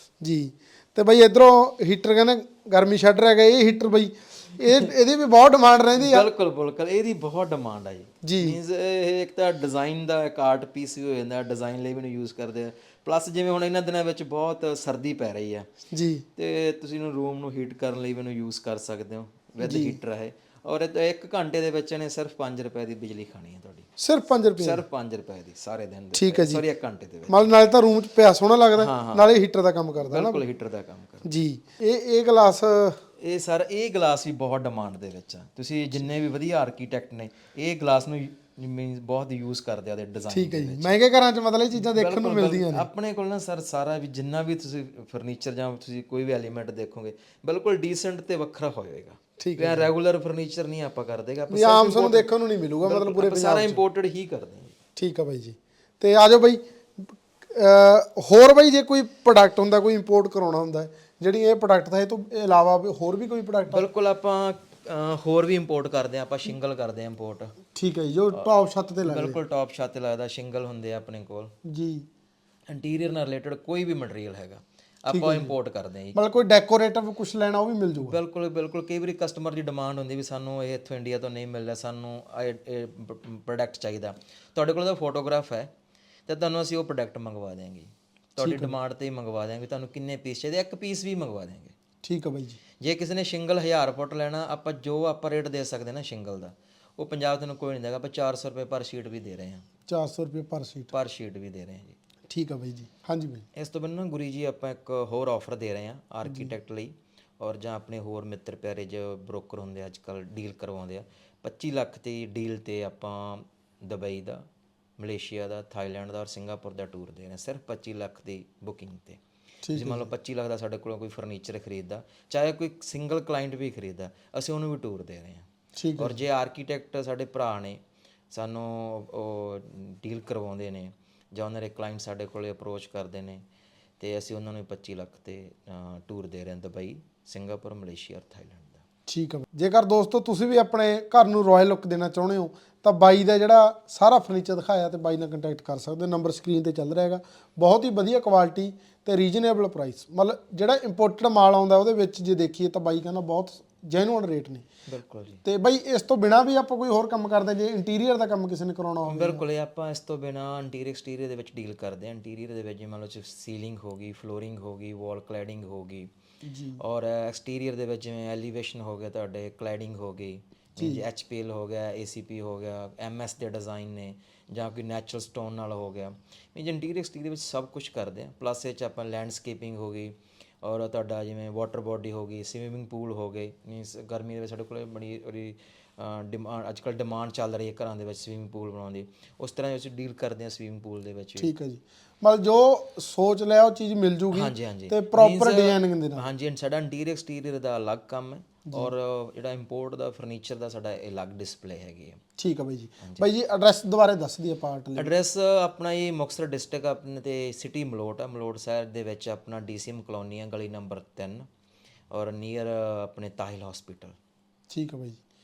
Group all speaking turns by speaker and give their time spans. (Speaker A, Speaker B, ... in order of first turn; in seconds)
Speaker A: 0.2-6.2, 8.2-8.6, 15.9-16.2, 19.6-20.0, 24.0-24.8, 26.1-26.6, 27.3-30.4, 31.2-33.0, 40.3-42.9, 49.4-49.9, 51.5-53.8, 55.0-63.8, 67.7-69.4, 71.6-72.0, 75.1-75.5, 76.1-78.2, 88.4-88.7, 92.0-92.6, 99.9-100.9, 102.3-103.4, 106.2-106.5, 119.6-120.1, 125.8-126.2, 139.1-154.7, 155.4-159.4, 166.4-166.8, 170.8-171.0, 191.4-196.2, 198.7-198.9, 202.4-205.1, 214.7-215.2
Speaker B: 6.0-15.7, 16.4-23.9, 24.6-27.5, 28.8-29.3, 30.0-31.4, 33.2-40.9, 41.7-52.3, 52.8-54.7, 63.7-67.6, 69.0-71.5, 72.7-76.2, 78.0-85.7, 86.3-91.7, 92.8-99.6, 100.9-102.0, 103.5-114.4, 115.0-119.2, 119.7-125.4, 126.0-127.8, 128.3-133.4, 134.0-138.8, 154.9-155.4, 159.1-166.1, 166.8-191.5, 194.3-202.2, 203.0-203.3, 204.9-211.5, 212.1-214.2